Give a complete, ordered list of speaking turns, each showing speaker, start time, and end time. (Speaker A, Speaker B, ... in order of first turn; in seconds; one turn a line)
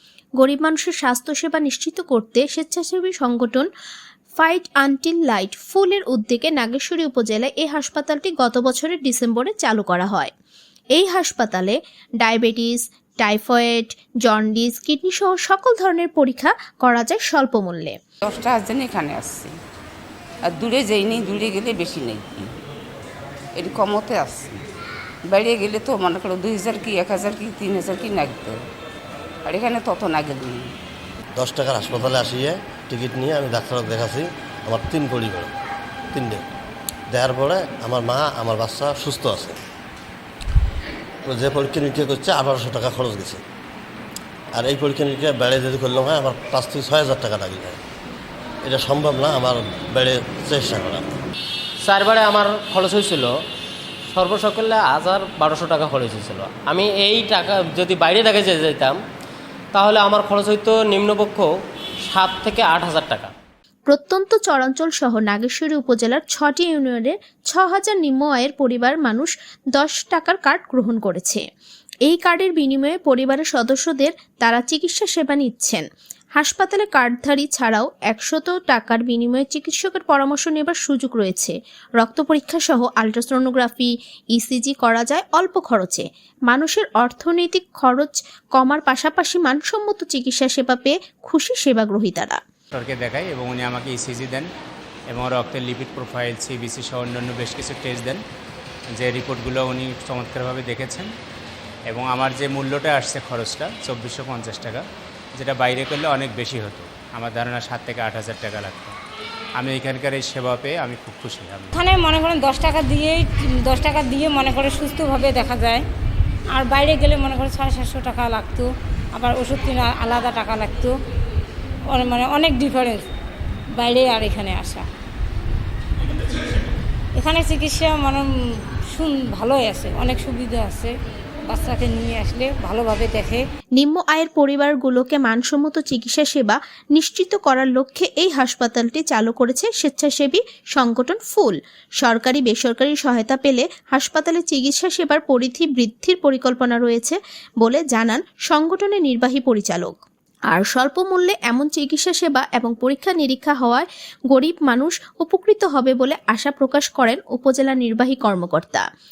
Speaker A: 0.4-3.7
Speaker A: 4.4-10.3
Speaker A: 11.0-18.0
Speaker B: 18.2-19.6
Speaker B: 20.5-22.5
Speaker B: 23.6-24.6
Speaker B: 25.3-28.6
Speaker B: 29.5-30.7
Speaker C: 31.4-35.5
Speaker C: 36.1-36.5
Speaker C: 37.1-39.6
Speaker C: 41.3-43.4
Speaker C: 44.5-47.8
Speaker C: 48.6-51.1
Speaker D: 51.9-53.2
Speaker D: 54.2-58.8
Speaker D: 59.8-61.4
Speaker D: 62.1-63.1
Speaker A: 63.9-71.4
Speaker A: 72.1-75.8
Speaker A: 76.4-92.4
Speaker E: 92.7-94.5
Speaker E: 95.1-98.2
Speaker E: 98.9-101.1
Speaker E: 101.9-104.8
Speaker E: 105.4-109.0
Speaker E: 109.6-111.8
Speaker F: 111.7-115.8
Speaker F: 116.5-120.9
Speaker F: 121.9-123.1
Speaker F: 123.8-124.8
Speaker F: 127.2-128.3
Speaker F: 128.9-130.9
Speaker F: 131.5-133.4
Speaker A: 133.8-150.0
Speaker A: 150.5-158.8